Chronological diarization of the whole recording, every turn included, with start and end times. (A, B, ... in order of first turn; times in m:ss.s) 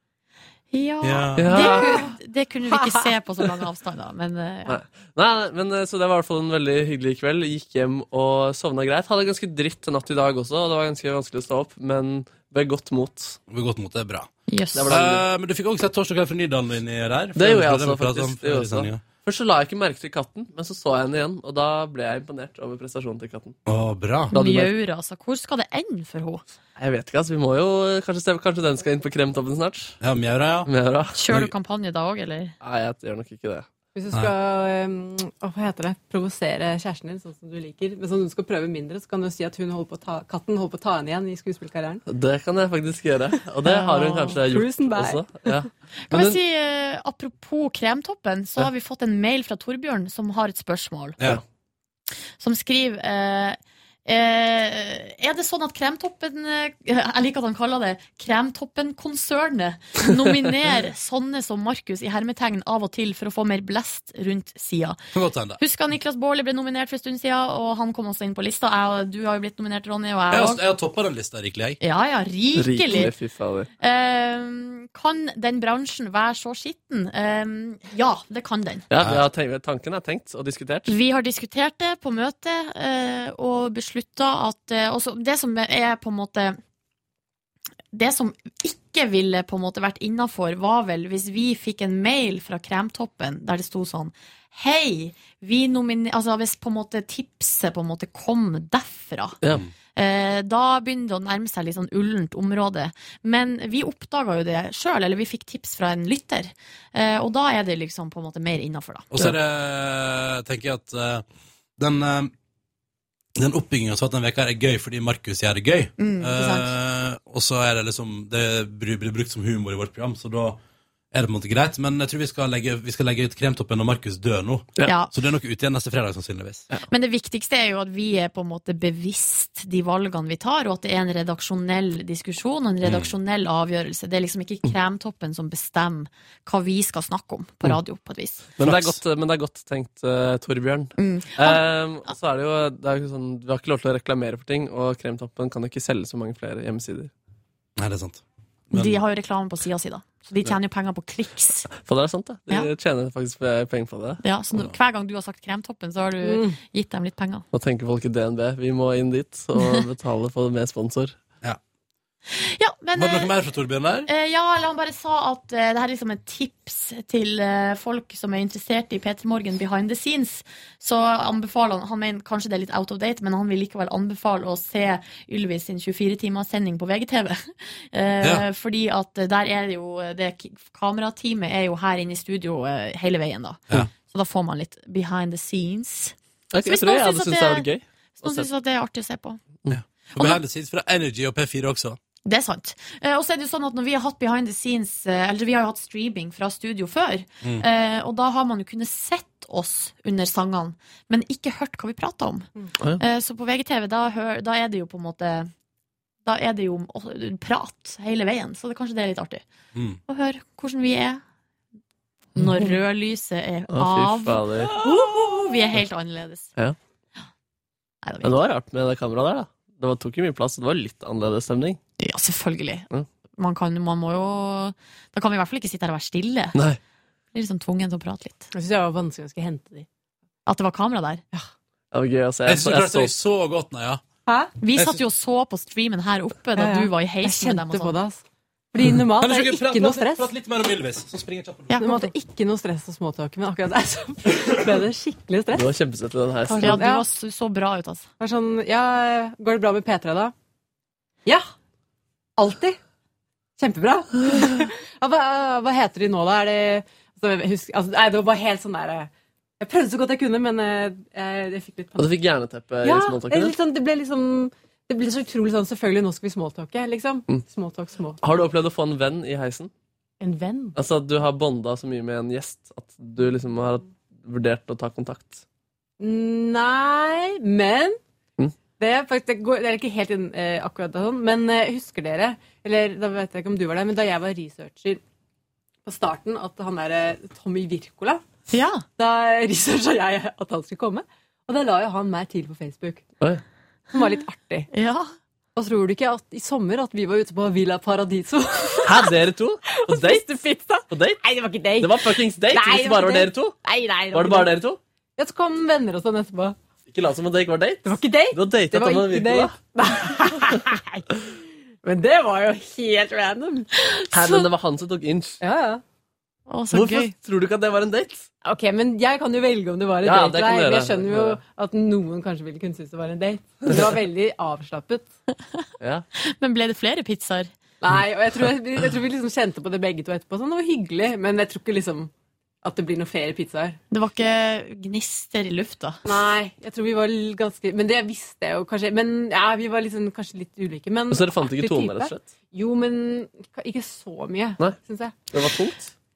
0:00.7-0:04.8 A
0:01.0-0:01.8 B
0:01.4-0:01.9 C
0:01.6-0:02.1 D
0:04.7-0:13.4 C
0:13.5-0:14.3 B
0:14.5-0:14.9 A
0:14.7-0:15.2 C
0:14.9-0:19.0 B
0:17.3-0:23.6 C
0:23.6-0:24.3 B
0:24.3-0:26.4 A
0:24.3-0:24.7 C
0:26.8-0:30.0 C
0:30.0-0:30.7 B
0:30.6-0:31.2 C
0:31.1-0:32.5 A
0:32.6-0:33.7 C
0:33.9-0:42.0 D
0:42.0-0:46.4 C
0:43.6-0:44.4 A
0:44.4-0:45.7 D
0:46.1-0:51.2 A
0:52.4-1:05.0 A
1:05.1-1:05.6 B
1:05.6-1:10.6 A
1:10.3-1:11.8 B
1:11.8-1:13.1 A
1:12.6-1:13.7 C
1:13.8-1:18.8 A
1:18.9-1:20.9 C
1:19.0-1:19.2 B
1:20.9-1:26.6 A
1:27.9-1:39.4 A
1:40.0-1:49.1 A
1:49.1-1:51.2 B
1:51.8-1:52.3 B
1:53.4-2:00.6 B
1:56.0-1:56.7 A
2:01.1-2:06.7 B
2:04.8-2:05.1 A
2:06.9-2:18.5 A
2:12.8-2:13.1 B
2:18.6-2:27.1 C
2:18.6-2:19.0 B
2:21.0-2:21.6 A
2:27.8-2:29.0 B
2:28.7-2:31.7 A
2:31.8-2:34.2 C
2:34.2-2:37.4 A
2:36.2-2:36.6 D
2:37.5-2:41.2 C
2:42.3-2:43.3 A
2:43.0-2:44.1 B
2:44.1-3:06.1 A
3:06.5-3:08.5 C
3:06.6-3:09.4 A
3:09.7-3:12.0 B
3:12.2-3:25.5 A
3:26.2-3:29.4 A
3:29.7-3:30.0 B
3:30.1-3:31.2 A
3:32.3-3:36.5 A
3:33.7-3:34.8 C
3:38.0-3:38.3 A
3:38.2-3:41.8 C
3:42.0-3:46.6 A
3:46.5-3:46.8 C
3:47.3-3:48.5 A
3:48.5-3:49.9 D
3:50.4-3:51.2 A
3:51.9-3:53.1 C
3:52.4-3:54.0 B
3:54.2-3:54.5 D
3:54.6-3:58.0 A
3:56.6-3:58.2 D
3:58.7-4:00.3 D
3:59.2-4:01.8 B
4:01.7-4:02.1 A
4:01.8-4:05.7 D
4:05.5-4:06.8 C
4:06.5-4:08.0 A
4:06.6-4:07.0 D
4:08.2-4:10.3 D
4:12.4-4:12.8 D
4:13.6-4:22.1 D
4:22.0-4:23.5 C
4:22.8-4:28.2 D
4:28.2-4:29.7 C
4:30.2-4:30.8 D
4:30.8-4:35.4 C
4:36.0-4:38.0 D
4:38.8-4:45.0 D
4:45.8-4:48.2 D
4:48.5-4:48.8 A
4:49.0-4:53.0 D
4:53.9-4:54.7 D
4:54.7-4:55.1 A
4:55.5-5:04.5 D
4:58.8-5:00.3 C
5:00.9-5:01.2 C
5:01.8-5:03.6 C
5:04.1-5:04.8 C
5:05.2-5:06.6 D
5:06.8-5:09.6 C
5:07.8-5:11.0 D
5:11.8-5:13.7 D
5:13.9-5:14.4 A
5:14.1-5:15.4 C
5:15.4-5:15.8 D
5:16.5-5:17.1 A
5:16.7-5:18.3 C
5:18.4-5:25.1 D
5:20.0-5:21.4 C
5:23.6-5:23.9 C
5:26.2-5:27.5 A
5:27.8-5:32.1 D
5:32.6-5:33.8 D
5:33.9-5:36.0 A
5:36.0-5:45.5 D
5:41.1-5:42.3 C
5:45.3-5:45.9 C